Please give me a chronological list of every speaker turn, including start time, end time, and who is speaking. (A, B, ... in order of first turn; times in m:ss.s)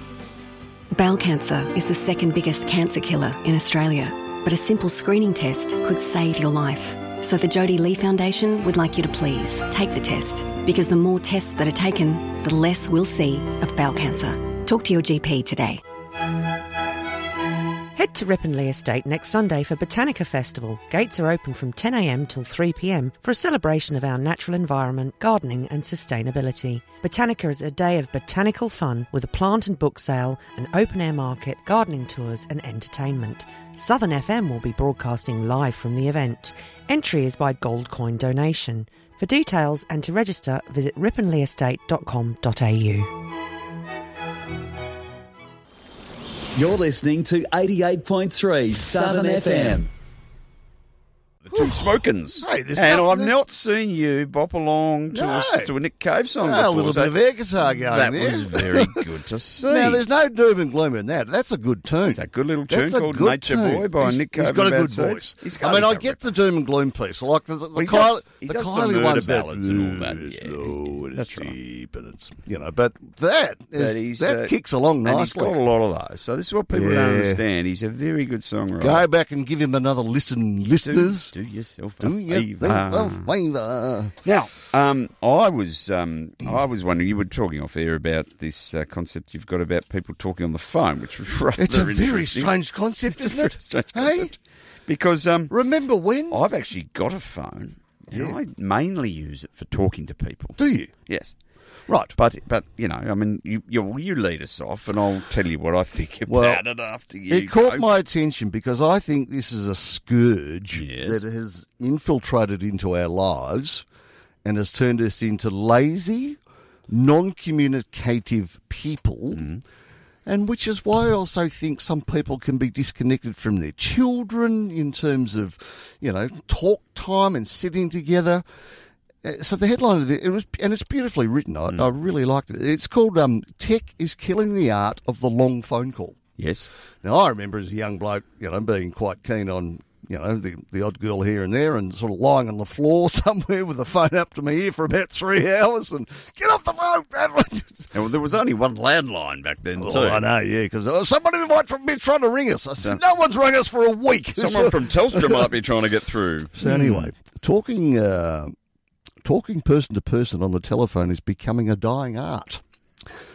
0:00.9-0:15.8 A
0:18.0-0:43.1 B
0:46.5-0:49.9 C
0:51.4-1:00.0 D
0:52.4-0:53.4 E
0:55.1-0:55.7 E
0:56.4-0:59.0 E
0:59.6-1:15.6 E
1:02.1-1:06.4 D
1:07.7-1:11.6 D
1:13.8-1:19.1 D
1:16.7-1:17.4 E
1:18.8-1:21.3 E
1:20.8-1:23.3 D
1:22.0-1:24.1 E
1:24.2-1:32.5 D
1:31.6-1:34.3 E
1:33.0-1:35.5 D
1:35.5-1:36.4 E
1:36.3-1:41.3 D
1:38.1-1:38.4 E
1:40.6-1:40.9 E
1:41.9-1:42.1 E
1:42.2-1:47.9 D
1:46.2-1:46.6 E
1:47.3-1:53.8 E
1:50.7-1:51.2 D
1:54.4-1:56.4 E
1:56.9-1:59.4 E
1:59.3-1:59.6 D
2:00.2-2:08.4 E
2:09.2-2:16.2 E
2:16.4-2:16.7 D
2:17.0-2:27.9 E
2:27.9-2:30.3 D
2:29.8-2:35.5 E
2:34.3-2:37.1 D
2:36.5-2:38.5 E
2:39.2-2:42.6 E